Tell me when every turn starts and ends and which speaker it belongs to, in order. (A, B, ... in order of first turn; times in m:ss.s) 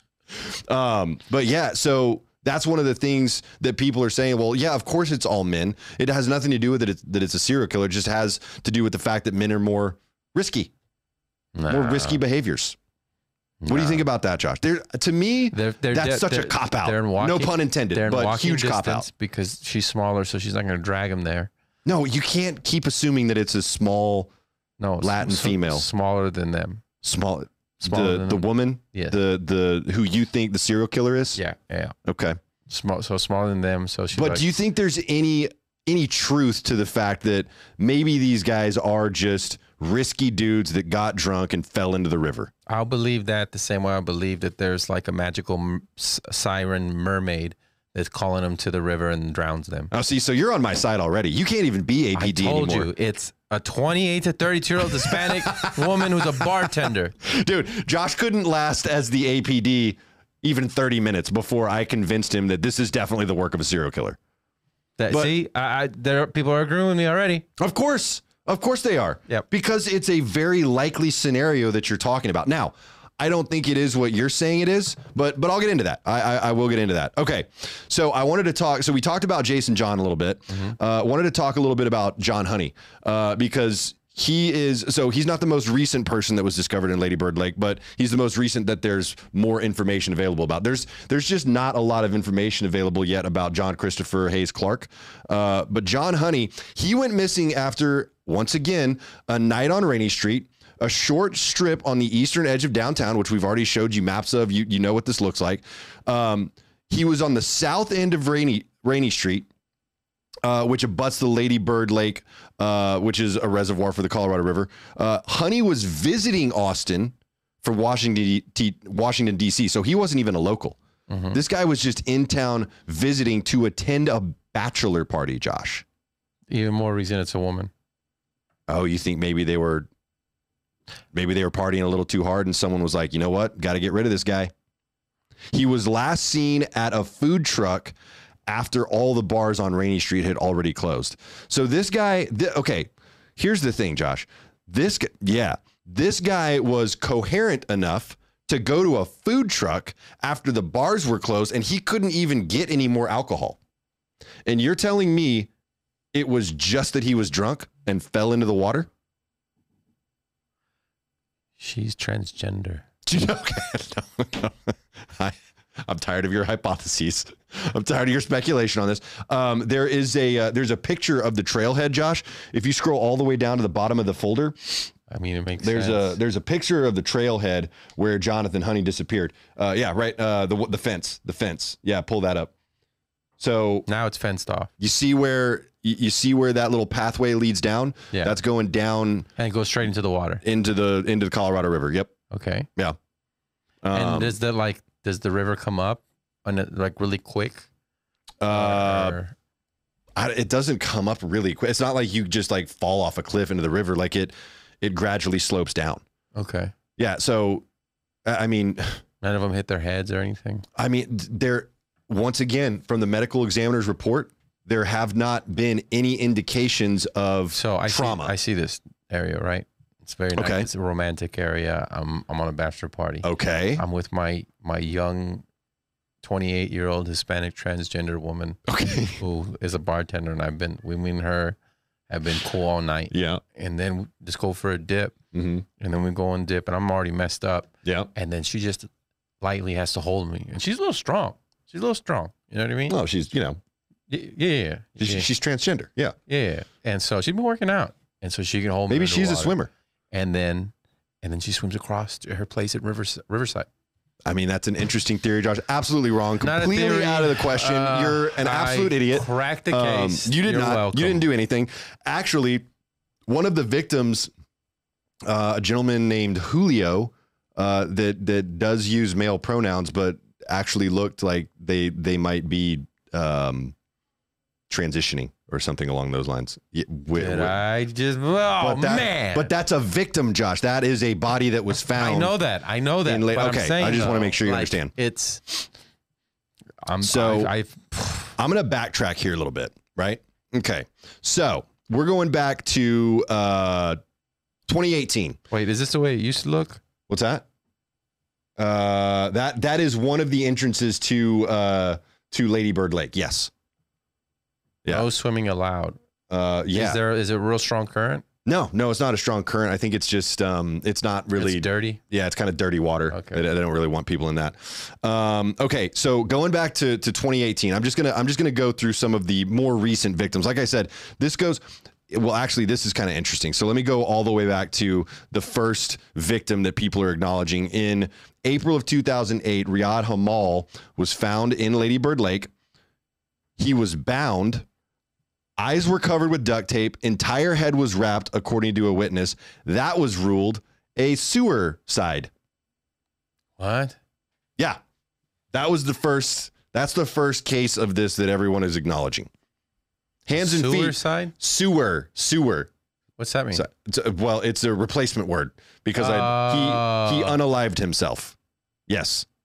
0:00.3-0:10.7 A
0:11.5-0:12.2 B
0:11.7-0:12.8 A
0:13.6-0:14.1 B
0:13.6-0:19.1 A
0:15.5-0:21.5 B
0:21.8-0:24.3 A
0:24.8-0:26.8 B
0:25.0-0:25.8 A
0:27.0-0:31.4 A
0:27.8-0:29.2 B
0:31.4-0:32.0 B
0:32.0-0:32.4 A
0:32.7-0:34.4 B
0:34.1-0:42.5 A
0:42.7-0:49.9 B
0:49.9-0:52.9 A
0:52.1-0:57.2 B
0:54.8-1:04.2 A
1:05.0-1:07.4 B
1:07.6-1:49.5 A
1:50.4-2:00.8 A
2:01.1-2:01.4 B
2:01.3-2:05.8 A
2:06.5-2:07.7 B
2:08.7-2:09.9 A
2:11.1-2:14.5 A
2:15.5-2:17.9 A
2:18.5-2:33.6 A
2:34.4-2:35.5 A
2:36.1-2:38.9 A
2:41.6-2:42.8 B
2:43.0-2:54.9 A
2:55.1-2:56.2 B
2:55.6-3:02.5 A
3:03.4-3:03.9 A
3:03.8-3:04.7 B
3:04.8-3:09.3 A
3:09.4-3:10.4 B
3:10.4-3:12.1 A
3:12.3-3:12.7 B
3:13.8-3:14.4 A
3:13.9-3:17.6 B
3:18.4-3:19.2 A
3:18.5-3:19.3 B
3:20.2-3:26.0 A
3:26.3-3:26.7 B
3:27.0-3:27.6 A
3:28.2-3:29.0 A
3:29.2-3:30.6 B
3:30.8-3:38.3 A
3:37.5-3:45.4 B
3:40.4-3:40.7 A
3:43.2-3:43.8 A
3:46.2-3:48.6 B
3:48.7-3:49.2 A
3:49.2-3:51.6 B
3:52.1-3:55.1 B
3:53.1-3:53.4 A
3:55.3-3:55.6 A
3:55.8-3:58.9 B
3:57.8-3:58.1 A
3:59.4-4:03.0 B
4:02.9-4:03.6 A
4:04.1-4:05.3 B
4:05.0-4:06.1 A
4:06.3-4:09.5 B
4:08.9-4:09.7 A
4:10.1-4:13.7 B
4:14.2-4:22.6 A
4:16.4-4:21.2 B
4:23.3-4:24.3 A
4:25.2-4:33.7 A
4:34.7-4:37.6 A
4:37.1-4:39.5 B
4:38.6-4:42.3 A
4:41.9-4:45.6 B
4:43.0-4:44.9 A
4:46.8-4:48.4 B
4:47.0-4:47.5 A
4:48.4-4:54.0 A
4:54.7-4:55.4 A
4:55.5-4:56.8 B
4:57.1-4:57.4 A
4:58.6-5:03.5 A
5:04.9-5:06.0 B
5:06.3-5:07.0 A
5:06.7-5:08.2 B
5:08.4-5:32.5 A
5:11.4-5:12.0 B
5:13.1-5:13.4 B
5:33.6-5:34.6 A
5:35.6-5:42.3 A
5:43.6-5:44.0 B
5:45.5-5:49.3 A
5:50.2-5:52.7 A
5:50.4-5:51.3 B
5:53.2-5:53.6 B
5:53.5-5:58.4 A
5:56.0-5:57.4 B
5:58.9-5:59.2 A